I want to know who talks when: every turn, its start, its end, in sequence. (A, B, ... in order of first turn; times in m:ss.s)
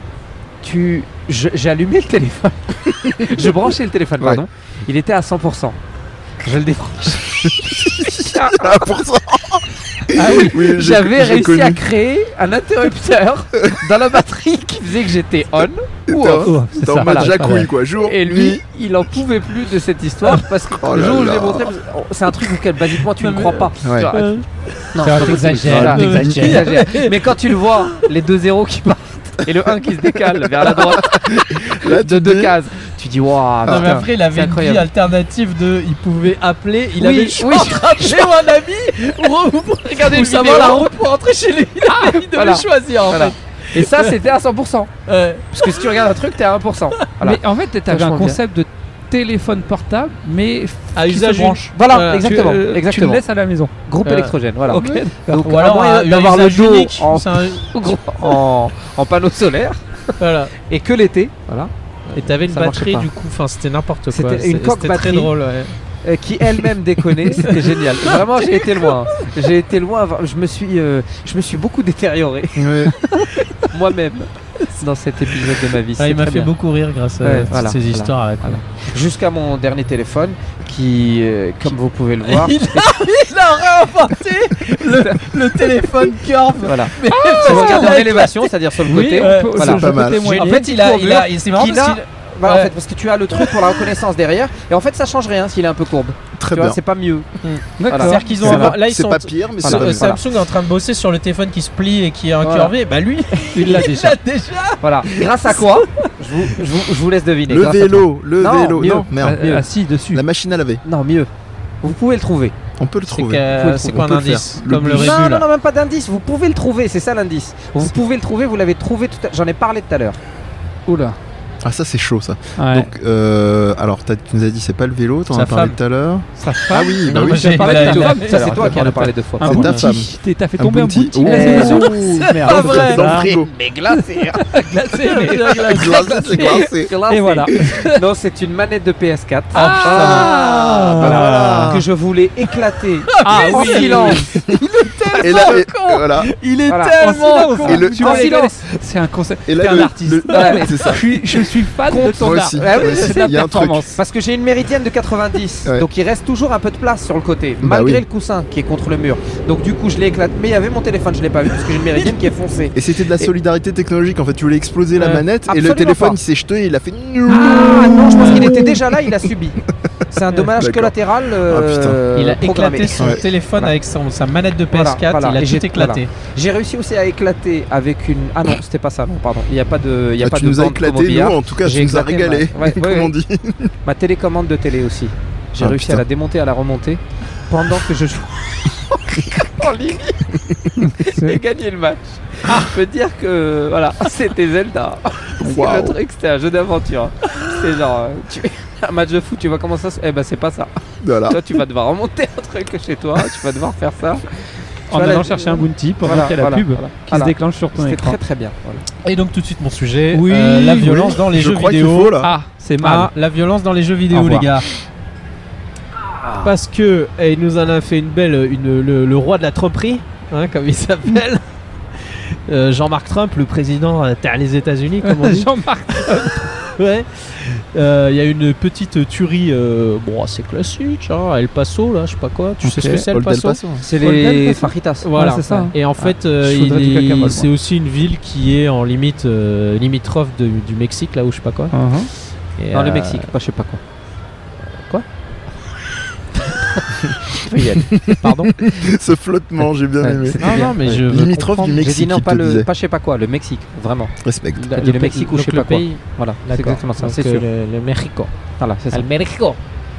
0:00.6-0:05.8 A
0:06.4-0:08.8 A
0:07.4-0:11.9 B
0:10.1-0:10.6 C
0:10.3-0:24.4 A
0:16.1-0:18.6 B
0:16.4-0:17.7 C
0:20.8-0:21.7 B
0:23.0-0:25.3 D
0:23.8-0:24.1 B
0:25.0-0:34.9 A
0:25.0-0:26.7 C
0:25.6-0:26.4 B
0:25.9-0:27.9 D
0:30.3-0:32.6 B
0:33.7-0:34.0 B
0:33.7-0:44.2 D
0:37.0-0:38.4 A
0:40.0-0:40.9 A
0:42.3-0:44.9 A
0:45.1-0:46.1 D
0:45.5-0:48.4 A
0:47.2-0:53.7 C
0:51.0-0:52.3 D
0:51.8-0:53.2 A
0:53.9-0:59.8 A
0:54.0-0:54.4 D
0:54.7-0:55.5 C
0:54.8-0:55.0 B
0:55.4-0:57.7 D
1:00.2-1:00.5 D
1:00.6-1:03.1 A
1:02.1-1:05.8 D
1:04.1-1:05.3 A
1:06.0-1:16.5 A
1:07.3-1:08.9 D
1:12.6-1:13.0 B
1:16.0-1:18.9 D
1:17.2-1:23.0 A
1:22.2-1:32.7 D
1:24.9-1:25.2 A
1:26.6-1:37.3 A
1:27.1-1:28.0 C
1:28.9-1:30.7 C
1:29.6-1:30.2 B
1:33.3-1:33.9 D
1:36.4-1:36.8 B
1:37.4-1:45.8 D
1:37.8-1:38.2 C
1:37.9-1:38.8 A
1:38.3-1:40.2 B
1:39.6-1:40.2 A
1:42.4-1:42.7 A
1:43.5-1:44.2 C
1:44.8-1:49.6 A
1:47.5-1:49.5 B
1:49.2-1:50.2 C
1:50.1-1:50.8 B
1:50.8-1:51.3 A
1:51.8-1:52.5 A
1:52.8-1:55.2 B
1:53.1-1:55.5 D
1:53.5-1:54.1 A
1:54.9-2:00.2 A
2:00.9-2:01.2 C
2:01.6-2:07.5 B
2:02.6-2:02.9 C
2:05.3-2:05.8 D
2:06.4-2:13.3 C
2:07.1-2:09.9 D
2:07.6-2:09.6 A
2:09.4-2:13.5 B
2:11.2-2:14.5 A
2:11.3-2:13.0 D
2:14.0-2:18.0 C
2:15.0-2:16.1 D
2:15.6-2:16.9 B
2:16.0-2:20.4 A
2:19.5-2:21.0 D
2:19.5-2:21.7 C
2:20.9-2:21.9 B
2:21.0-2:24.3 A
2:23.2-2:28.0 D
2:23.2-2:24.3 C
2:25.2-2:26.3 B
2:26.7-2:28.6 A
2:27.0-2:34.0 C
2:27.6-2:28.3 B
2:29.5-2:31.0 B
2:30.3-2:30.8 A
2:31.9-2:43.3 A
2:32.2-2:33.9 B
2:37.6-2:38.0 B
2:42.8-2:49.3 B
2:45.0-2:46.2 A
2:47.3-2:53.0 A
2:48.0-2:48.6 D
2:50.6-2:52.0 B
2:52.1-2:56.1 D
2:53.0-2:53.2 B
2:54.7-3:03.1 A
3:00.2-3:03.7 B
3:03.8-3:24.3 A
3:05.6-3:06.0 B
3:10.8-3:11.4 C
3:15.4-3:16.0 B
3:21.0-3:21.4 B
3:24.9-3:28.8 A
3:24.9-3:28.2 C
3:29.0-3:32.2 D
3:30.1-3:30.8 C
3:30.7-3:32.3 B
3:32.2-3:33.1 C
3:32.8-3:34.7 D
3:34.1-3:34.5 C
3:36.0-3:36.5 A
3:36.4-3:41.4 D
3:42.0-3:53.6 D
3:45.0-3:46.5 C
3:52.6-3:53.0 C
3:53.1-3:53.8 B
3:53.8-3:55.6 A
3:54.0-3:57.5 C
3:55.0-4:01.7 D
4:01.7-4:02.1 C
4:02.6-4:03.3 D
4:02.7-4:03.8 A
4:07.4-4:07.9 A
4:07.4-4:08.6 D
4:07.9-4:12.7 B
4:10.0-4:14.1 A
4:10.4-4:11.6 D
4:14.2-4:14.8 B
4:14.6-4:18.3 D
4:14.8-4:17.4 A
4:18.6-4:19.1 A
4:18.9-4:19.6 D